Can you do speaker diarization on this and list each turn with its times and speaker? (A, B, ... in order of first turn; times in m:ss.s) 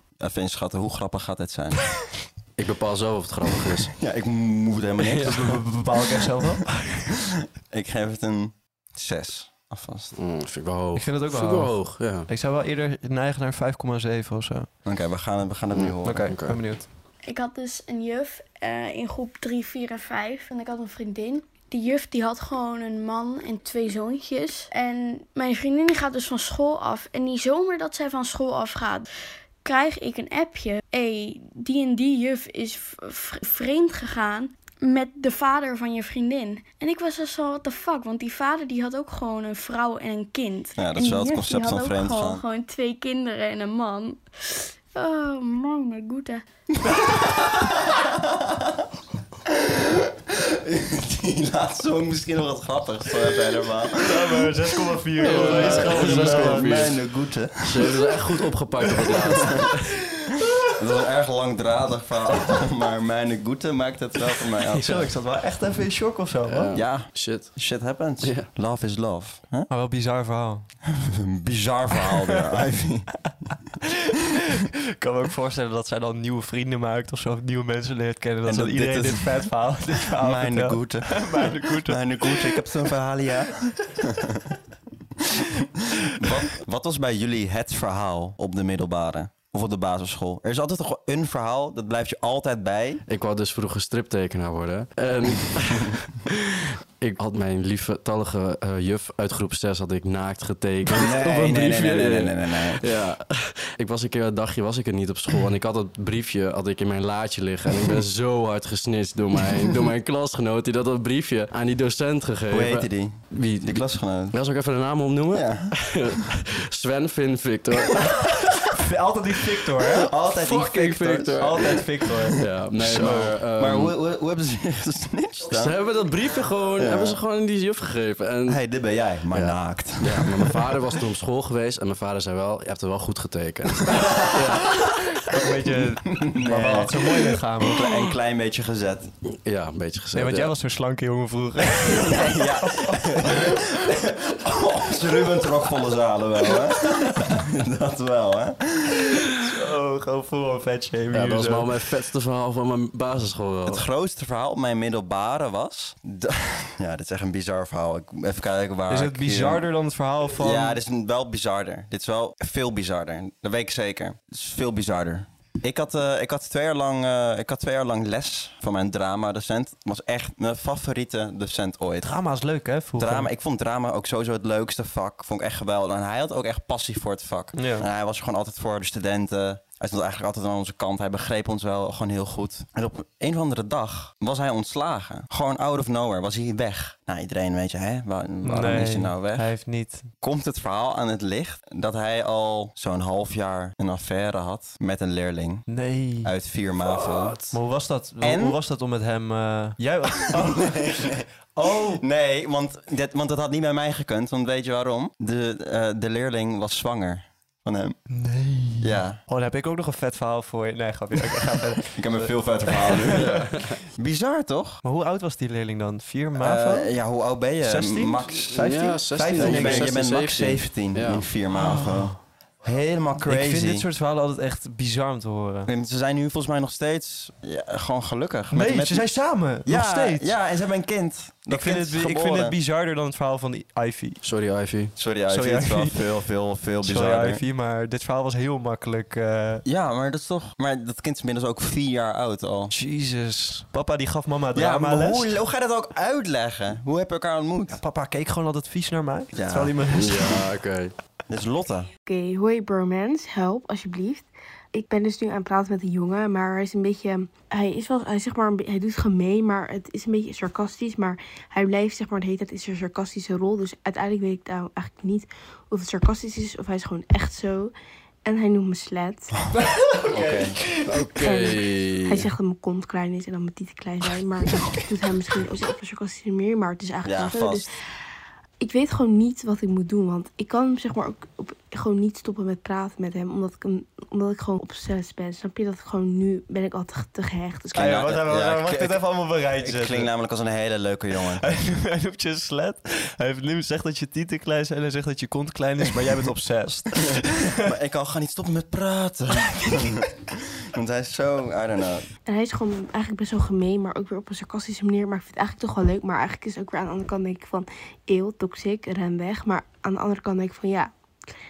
0:00.2-0:01.8 A
0:02.6-0:03.9 B
0:04.0-0:05.6 A
0:05.2-0:06.8 C
0:07.7-0:10.1 A
0:10.2-0:12.3 B
0:11.0-0:14.7 C
0:14.8-0:16.3 A
0:15.7-0:16.6 B
0:16.0-0:16.9 C
0:17.2-0:29.1 D
0:29.6-0:46.4 D
0:40.8-0:42.4 A
0:50.7-0:54.5 A
0:54.0-0:56.9 C
0:55.2-0:57.0 B
0:55.2-0:58.1 A
0:57.6-0:59.8 B
0:59.0-0:59.6 A
1:00.8-1:05.1 A
1:04.8-1:06.8 C
1:06.5-1:07.6 B
1:06.8-1:09.7 A
1:08.2-1:08.5 B
1:09.7-1:10.7 C
1:11.0-1:13.2 A
1:15.0-1:22.6 C
1:18.4-1:19.6 A
1:20.2-1:24.2 A
1:26.1-1:33.0 A
1:33.1-1:36.4 B
1:37.0-1:58.5 B
1:40.9-1:42.8 A
1:52.5-1:54.4 A
1:55.3-1:55.7 A
1:58.7-2:00.1 C
2:00.1-2:01.5 A
2:00.2-2:01.8 B
2:01.3-2:03.3 C
2:02.4-2:04.0 B
2:02.8-2:05.8 A
2:05.5-2:08.6 B
2:06.8-2:07.2 A
2:08.5-2:10.7 A
2:09.3-2:14.8 B
2:15.2-2:17.9 C
2:16.1-2:19.1 A
2:19.4-2:20.5 B
2:20.1-2:23.6 C
2:22.0-2:29.1 A
2:29.4-2:31.7 C
2:31.1-2:33.8 B
2:33.7-2:39.6 A
2:38.9-2:40.8 C
2:40.4-2:52.1 A
2:52.0-2:53.3 C
2:53.0-3:09.5 A
2:57.6-2:57.9 C
3:08.4-3:10.1 C
3:10.2-3:17.5 A
3:15.7-3:16.3 C
3:17.5-3:22.0 C
3:18.2-3:18.6 A
3:20.4-3:21.3 A
3:22.0-3:28.0 A
3:28.1-3:33.5 C
3:28.8-3:29.2 A
3:31.9-3:34.8 A
3:33.2-3:33.8 B
3:34.8-3:36.9 C
3:36.4-3:43.9 A
3:37.6-3:40.0 C
3:38.5-3:41.3 B
3:41.5-3:42.1 C
3:43.2-3:45.7 C
3:45.7-3:52.6 A
3:48.5-3:50.3 C
3:51.5-3:54.2 C
3:54.2-3:54.9 B
3:55.0-3:57.4 A
3:55.3-3:56.0 C
3:56.8-3:59.6 C
3:59.6-4:02.7 A
4:02.7-4:05.3 C
4:04.6-4:07.8 A
4:07.7-4:10.4 C
4:09.3-4:10.4 A
4:09.9-4:10.9 B
4:11.3-4:11.9 A
4:12.1-4:27.7 E
4:28.2-4:29.4 E
4:29.8-4:30.9 C
4:30.1-4:30.7 A
4:30.9-4:32.3 B
4:31.2-4:37.7 E
4:37.0-4:37.6 A
4:38.6-4:48.1 E
4:47.7-4:50.1 C
4:47.7-4:51.4 A
4:51.4-4:57.5 C
4:57.6-5:02.1 A
5:02.3-5:10.9 E